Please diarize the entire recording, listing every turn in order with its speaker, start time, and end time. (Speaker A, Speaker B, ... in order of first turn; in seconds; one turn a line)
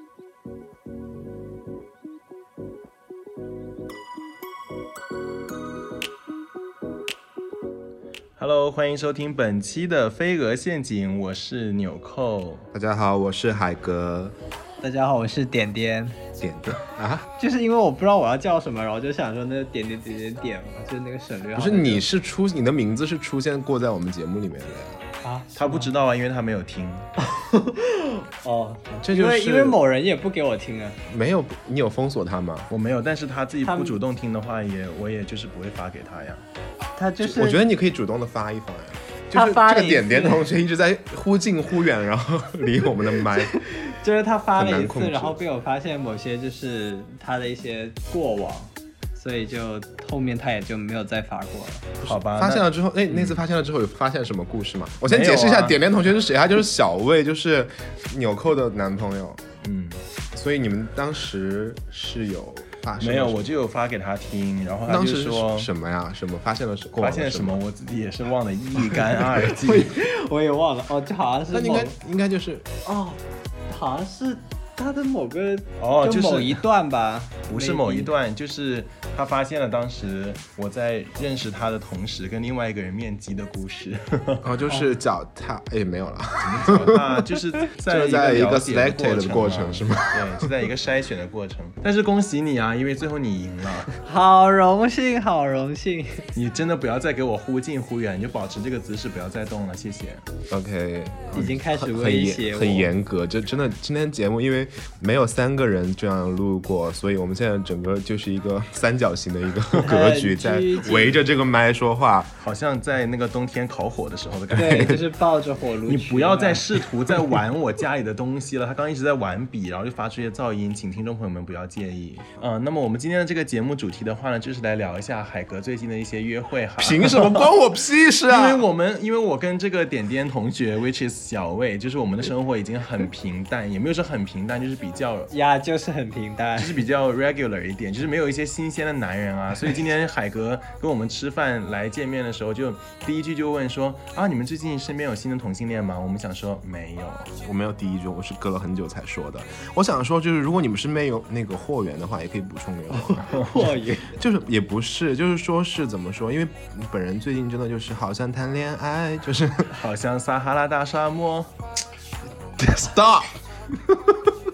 Speaker A: 8.4-12.7
Speaker B: 12.7-14.3
Speaker C: 14.8-16.2
Speaker B: 16.4-17.3
Speaker C: 17.4-22.0
Speaker B: 21.5-25.0
Speaker C: 25.2-25.9
Speaker A: 25.6-27.1
Speaker C: 27.2-31.0
Speaker B: 29.0-29.8
Speaker B: 31.1-32.7
Speaker A: 32.7-36.4
Speaker C: 33.6-34.0
Speaker C: 36.9-37.6
Speaker B: 37.2-43.5
Speaker C: 39.3-40.5
Speaker C: 43.3-51.9
Speaker B: 44.5-45.4
Speaker A: 52.0-53.4
Speaker B: 52.0-59.4
Speaker A: 55.1-55.8
Speaker A: 59.6-60.0
Speaker B: 60.3-63.5
Speaker A: 63.0-65.7
Speaker B: 64.9-67.6
Speaker A: 67.0-70.0
Speaker C: 69.5-72.0
Speaker B: 71.5-72.7
Speaker C: 72.8-78.1
Speaker A: 75.8-76.6
Speaker A: 77.5-84.5
Speaker B: 84.4-87.3
Speaker C: 84.7-84.9
Speaker A: 86.4-94.0
Speaker B: 87.8-90.5
Speaker C: 94.0-96.3
Speaker A: 96.3-100.2
Speaker B: 100.5-112.3
Speaker C: 101.3-102.9
Speaker C: 109.8-111.2
Speaker A: 112.4-115.0
Speaker C: 114.5-116.6
Speaker B: 114.5-115.0
Speaker A: 115.9-127.5
Speaker B: 126.8-128.7
Speaker A: 128.3-135.3
Speaker C: 135.3-136.8
Speaker A: 136.6-147.3
Speaker B: 147.4-159.7
Speaker C: 152.9-154.1
Speaker A: 153.3-153.5
Speaker A: 159.7-161.5
Speaker B: 162.6-164.2